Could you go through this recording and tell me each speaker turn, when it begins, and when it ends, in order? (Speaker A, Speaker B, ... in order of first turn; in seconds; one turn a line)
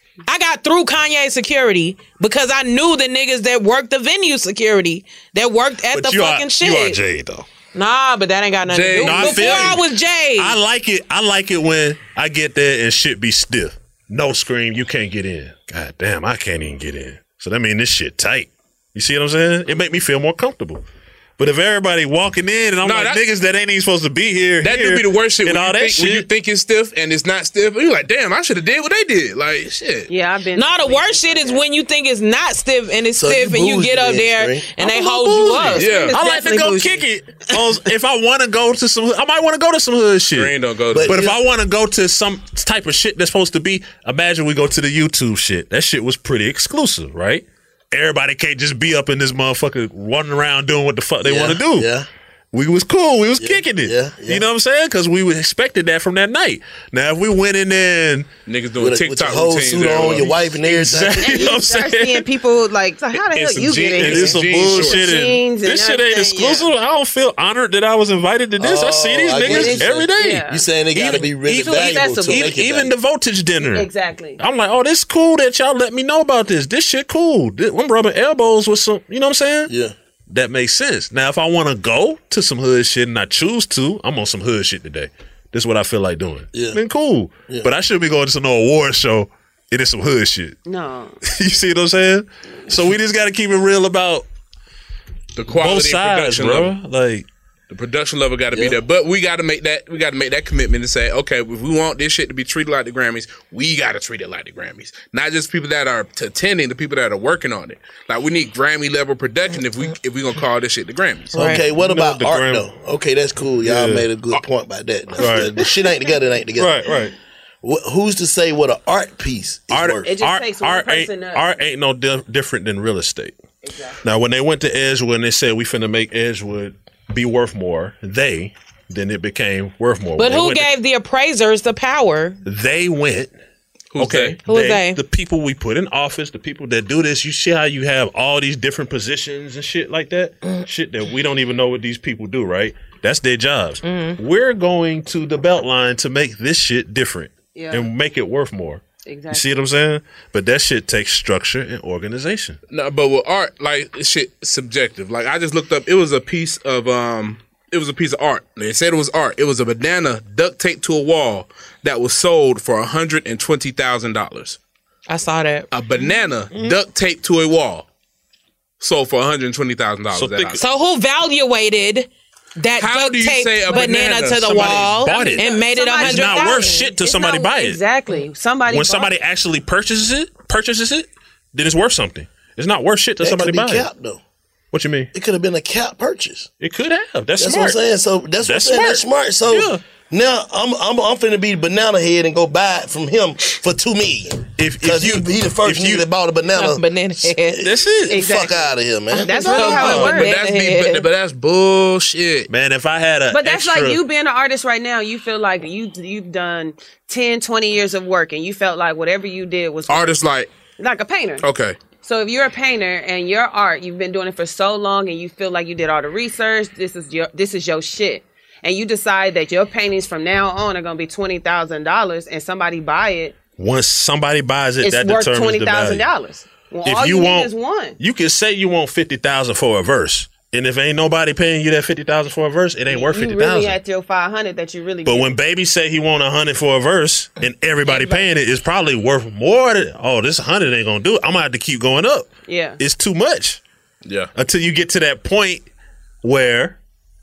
Speaker A: 0.2-7.0
Speaker B: 5.9-7.5
Speaker A: 7.7-10.6
Speaker C: 8.7-9.8
Speaker B: 9.0-9.8
Speaker B: 10.4-20.8
Speaker B: 21.4-26.3
Speaker C: 22.8-23.2
Speaker C: 24.6-30.1
Speaker D: 30.1-31.6
Speaker A: 30.5-35.9
Speaker E: 33.1-34.8
Speaker B: 34.8-51.9
Speaker D: 35.7-37.6
Speaker C: 35.8-36.2
Speaker C: 40.3-41.2
Speaker E: 40.9-41.4
Speaker E: 51.2-52.1
Speaker B: 52.5-58.3
Speaker E: 53.4-54.4
Speaker C: 58.5-60.4
Speaker E: 58.8-61.5
Speaker B: 59.9-62.2
Speaker D: 61.2-66.7
Speaker C: 63.1-65.0
Speaker B: 63.9-79.7
Speaker E: 68.6-72.9
Speaker D: 69.4-72.5
Speaker D: 73.6-74.4
Speaker E: 79.7-79.9
Speaker B: 80.3-90.6
Speaker E: 86.5-86.8
Speaker D: 90.6-91.2
Speaker B: 91.2-94.2
Speaker C: 95.3-96.7
Speaker B: 95.5-97.3
Speaker C: 97.7-111.4
Speaker A: 111.3-111.6
Speaker E: 111.3-116.8
Speaker B: 111.6-112.7
Speaker B: 113.6-114.1
Speaker B: 115.2-115.7
Speaker B: 116.6-117.1
Speaker E: 117.6-120.1
Speaker B: 119.7-123.4
Speaker D: 120.0-121.6
Speaker D: 123.6-124.0
Speaker B: 124.0-130.7
Speaker A: 130.2-132.4
Speaker B: 132.4-133.3
Speaker C: 133.9-134.4
Speaker B: 134.0-152.6
Speaker A: 134.4-135.0
Speaker A: 143.8-144.2
Speaker D: 147.5-147.9
Speaker D: 149.0-149.6
Speaker C: 152.7-164.6
Speaker A: 165.1-165.7
Speaker C: 165.7-167.9
Speaker B: 166.5-166.8
Speaker C: 168.8-170.6
Speaker B: 170.1-170.6
Speaker A: 170.6-176.9
Speaker C: 172.8-175.2
Speaker B: 174.5-177.8
Speaker D: 175.2-179.1
Speaker B: 178.7-183.9
Speaker E: 183.2-184.2
Speaker B: 184.7-185.1
Speaker E: 185.1-186.5
Speaker B: 186.6-187.8
Speaker E: 187.4-199.6
Speaker B: 188.4-189.8
Speaker B: 194.6-196.1
Speaker A: 196.5-197.6
Speaker B: 197.6-198.3
Speaker D: 198.1-200.3
Speaker A: 199.1-201.1
Speaker B: 199.3-200.2
Speaker C: 200.1-202.5
Speaker B: 202.5-204.0
Speaker D: 203.3-210.2
Speaker C: 209.9-210.5
Speaker D: 210.8-223.3
Speaker C: 211.4-211.8
Speaker B: 223.6-226.1
Speaker D: 224.8-228.0
Speaker B: 226.8-233.8
Speaker D: 232.9-235.3
Speaker B: 235.0-243.6
Speaker D: 242.5-242.8
Speaker C: 244.1-244.3
Speaker B: 244.3-245.7
Speaker B: 246.2-246.8